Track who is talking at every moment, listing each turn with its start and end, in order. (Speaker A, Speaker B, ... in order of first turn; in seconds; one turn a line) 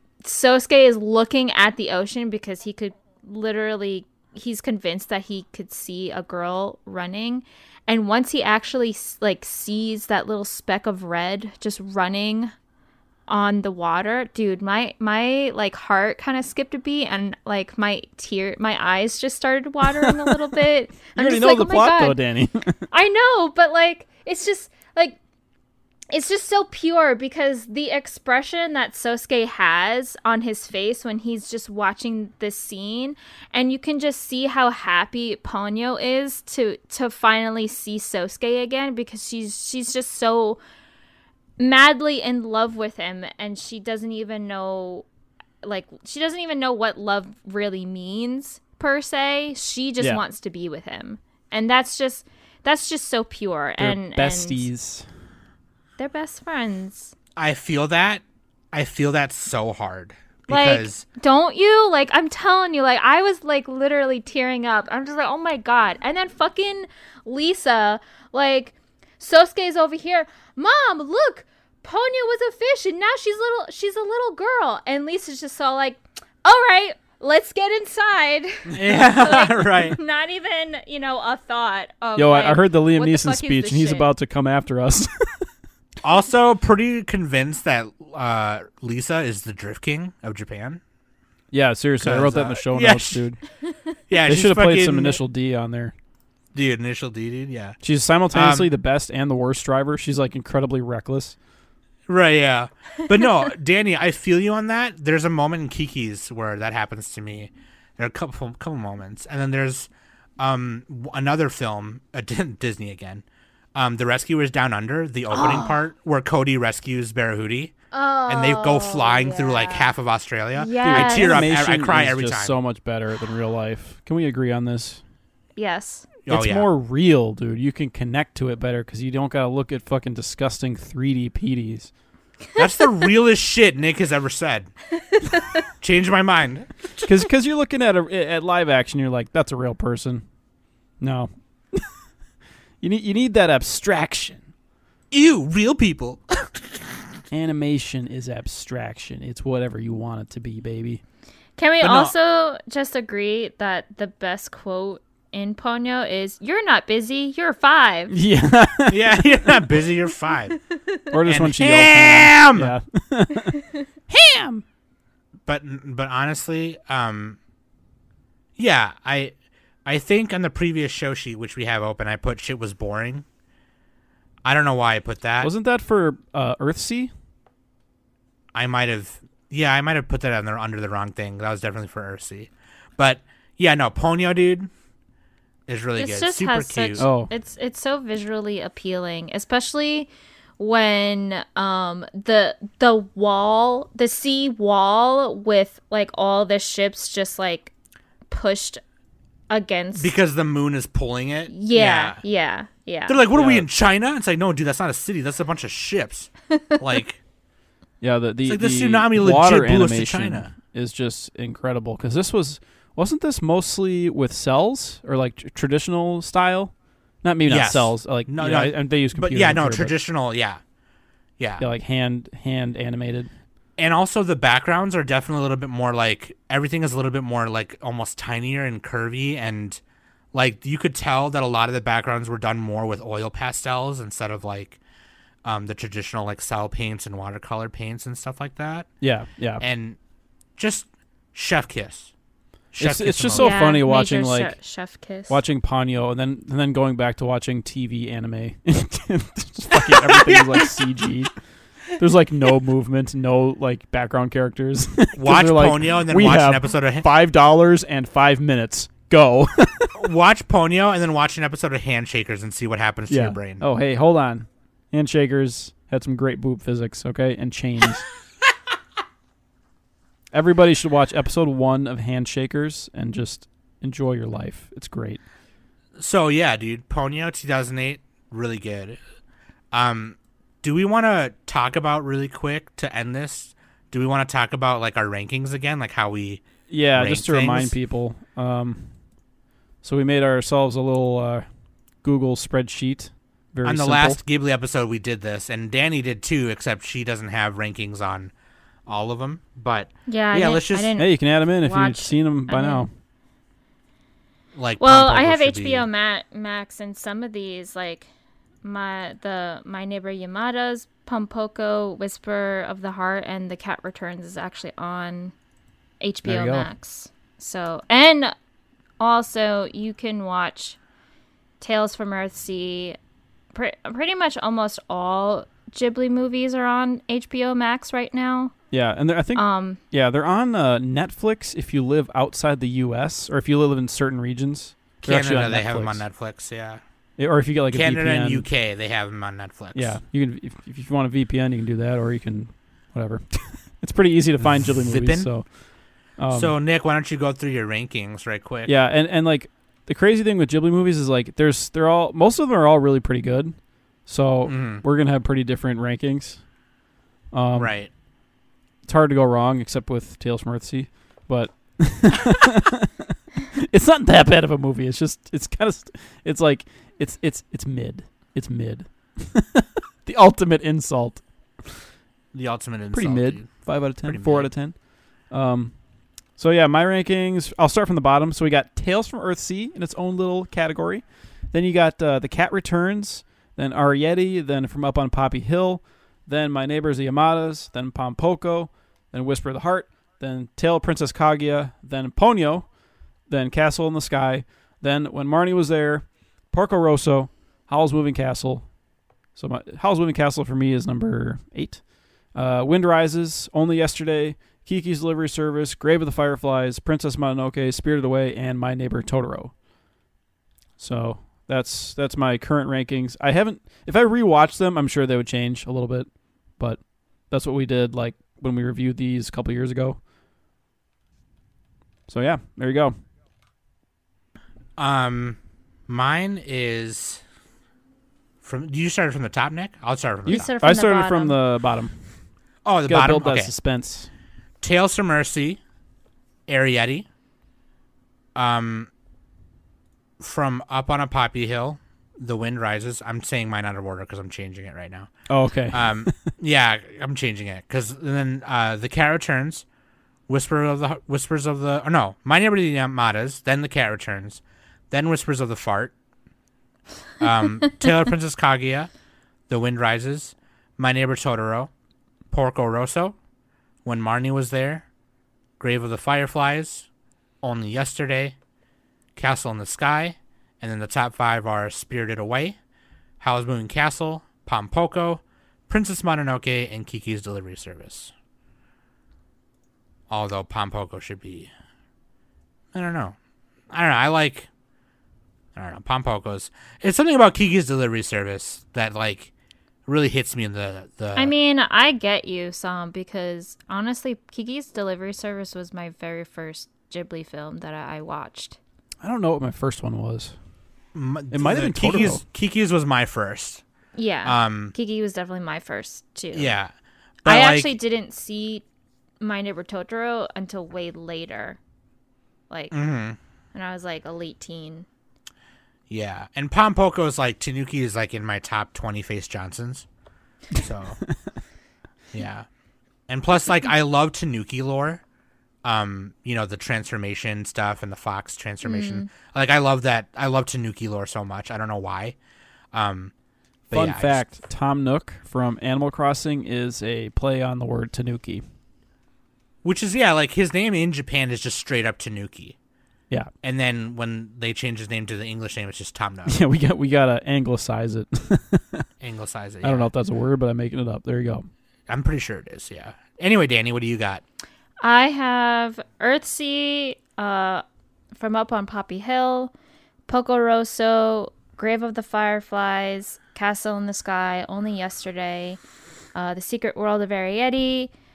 Speaker A: 0.2-12.5
Speaker A: 13.3-22.2
Speaker B: 19.9-20.4
Speaker B: 21.1-22.9
Speaker A: 22.9-25.2
Speaker A: 26.1-40.6
Speaker A: 41.6-45.0
Speaker A: 45.6-54.7
Speaker B: 53.8-55.0
Speaker A: 56.0-57.1
Speaker C: 57.4-61.0
Speaker A: 60.5-84.1
Speaker C: 78.7-80.0
Speaker B: 82.2-85.3
Speaker C: 86.0-90.8
Speaker B: 91.5-93.4
Speaker C: 92.0-93.2
Speaker C: 94.1-95.2
Speaker B: 94.2-95.9
Speaker C: 96.5-97.8
Speaker B: 97.8-101.3
Speaker C: 98.3-98.7
Speaker C: 102.1-113.2
Speaker C: 113.7-117.7
Speaker A: 115.3-115.8
Speaker A: 117.9-119.9
Speaker C: 118.3-122.5
Speaker A: 120.5-121.5
Speaker B: 120.8-125.0
Speaker A: 125.5-126.1
Speaker C: 126.2-126.7
Speaker B: 126.3-131.9
Speaker C: 132.6-134.7
Speaker C: 135.8-137.1
Speaker B: 137.0-140.2
Speaker B: 141.0-141.8
Speaker B: 142.8-144.4
Speaker C: 145.1-146.9
Speaker B: 147.3-151.0
Speaker A: 151.6-158.1
Speaker C: 151.8-152.1
Speaker B: 158.1-159.3
Speaker C: 158.9-160.6
Speaker A: 160.7-161.1
Speaker B: 161.1-164.6
Speaker C: 161.2-162.7
Speaker C: 165.4-167.4
Speaker C: 168.6-169.3
Speaker C: 169.8-173.2
Speaker C: 174.4-175.5
Speaker B: 175.4-177.1
Speaker C: 178.5-184.7
Speaker C: 185.7-187.0
Speaker A: 186.0-197.7
Speaker B: 187.0-187.3
Speaker A: 198.3-198.8
Speaker A: 199.5-200.1
Speaker C: 199.9-202.2
Speaker A: 201.5-203.2
Speaker C: 203.1-207.2
Speaker B: 203.3-203.7
Speaker B: 208.0-219.9
Speaker C: 208.4-210.5
Speaker C: 217.5-220.6
Speaker C: 221.4-221.6
Speaker B: 221.6-223.3
Speaker C: 223.8-229.8
Speaker C: 230.3-234.8
Speaker C: 235.4-238.9
Speaker B: 239.0-239.6
Speaker C: 239.6-240.0
Speaker C: 240.6-242.1
Speaker C: 242.7-243.7
Speaker B: 242.8-244.5
Speaker A: 243.3-245.4
Speaker B: 245.3-251.3
Speaker B: 251.9-259.9
Speaker C: 255.1-257.1
Speaker C: 259.9-263.6
Speaker B: 263.1-268.1
Speaker B: 270.3-275.2
Speaker C: 276.0-279.0
Speaker C: 279.7-286.4
Speaker B: 286.7-288.9
Speaker C: 286.9-287.7
Speaker B: 289.8-291.4
Speaker B: 292.0-294.2
Speaker C: 293.6-298.3
Speaker C: 298.9-300.9
Speaker A: 300.1-302.9
Speaker B: 301.0-302.9
Speaker C: 304.5-305.9
Speaker A: 304.8-308.1
Speaker A: 308.6-315.3
Speaker A: 316.0-318.3
Speaker B: 316.2-316.7
Speaker A: 319.0-320.8
Speaker A: 321.6-323.0
Speaker A: 323.5-328.5
Speaker B: 328.7-336.0
Speaker A: 329.4-329.8
Speaker C: 335.0-336.8
Speaker B: 337.2-338.4
Speaker C: 337.7-339.9
Speaker B: 339.7-345.4
Speaker C: 344.5-345.3
Speaker B: 346.2-346.5
Speaker C: 346.3-348.7
Speaker B: 348.6-356.4
Speaker C: 354.4-354.8
Speaker B: 357.3-357.7
Speaker C: 357.5-357.9
Speaker B: 358.9-371.2
Speaker C: 372.3-374.5
Speaker B: 372.9-375.8
Speaker B: 376.4-392.7
Speaker B: 393.3-398.7
Speaker B: 399.3-409.5
Speaker B: 410.8-420.0
Speaker B: 422.1-422.9
Speaker C: 424.8-427.2
Speaker C: 428.4-430.5
Speaker A: 430.3-431.4
Speaker B: 430.3-431.9
Speaker C: 432.6-433.5
Speaker B: 432.9-434.1
Speaker C: 434.6-435.6
Speaker C: 436.5-437.1
Speaker C: 438.3-438.9
Speaker C: 440.2-445.1
Speaker B: 445.3-446.3
Speaker C: 445.7-449.6
Speaker C: 450.3-455.9
Speaker C: 457.2-458.9
Speaker C: 459.5-461.7
Speaker C: 462.3-463.1
Speaker C: 463.8-464.8
Speaker C: 465.6-466.9
Speaker C: 467.4-468.3
Speaker C: 469.1-472.6
Speaker C: 473.2-478.1
Speaker C: 480.1-481.5
Speaker C: 482.7-483.1
Speaker C: 483.7-484.5
Speaker C: 485.5-489.3
Speaker C: 489.9-491.3
Speaker A: 491.1-498.6
Speaker B: 499.0-500.3
Speaker C: 500.9-503.6
Speaker B: 501.3-502.2
Speaker A: 503.9-506.5
Speaker C: 504.2-504.7
Speaker C: 506.3-506.7
Speaker C: 507.2-507.7
Speaker A: 507.2-508.6
Speaker A: 509.2-511.6
Speaker A: 512.5-512.8
Speaker C: 512.7-513.2
Speaker A: 513.5-514.9
Speaker C: 515.9-519.9
Speaker C: 520.5-521.0
Speaker C: 522.1-522.5
Speaker C: 523.1-525.0
Speaker C: 525.6-532.1
Speaker A: 528.6-529.1
Speaker C: 532.7-533.1
Speaker C: 533.7-534.2
Speaker B: 533.7-538.4
Speaker C: 539.6-542.5
Speaker C: 543.4-546.4
Speaker B: 546.2-548.8
Speaker C: 549.0-549.9
Speaker B: 549.6-551.5
Speaker C: 551.9-554.2
Speaker A: 554.8-557.6
Speaker A: 558.2-559.5
Speaker A: 560.1-565.6
Speaker A: 566.1-567.9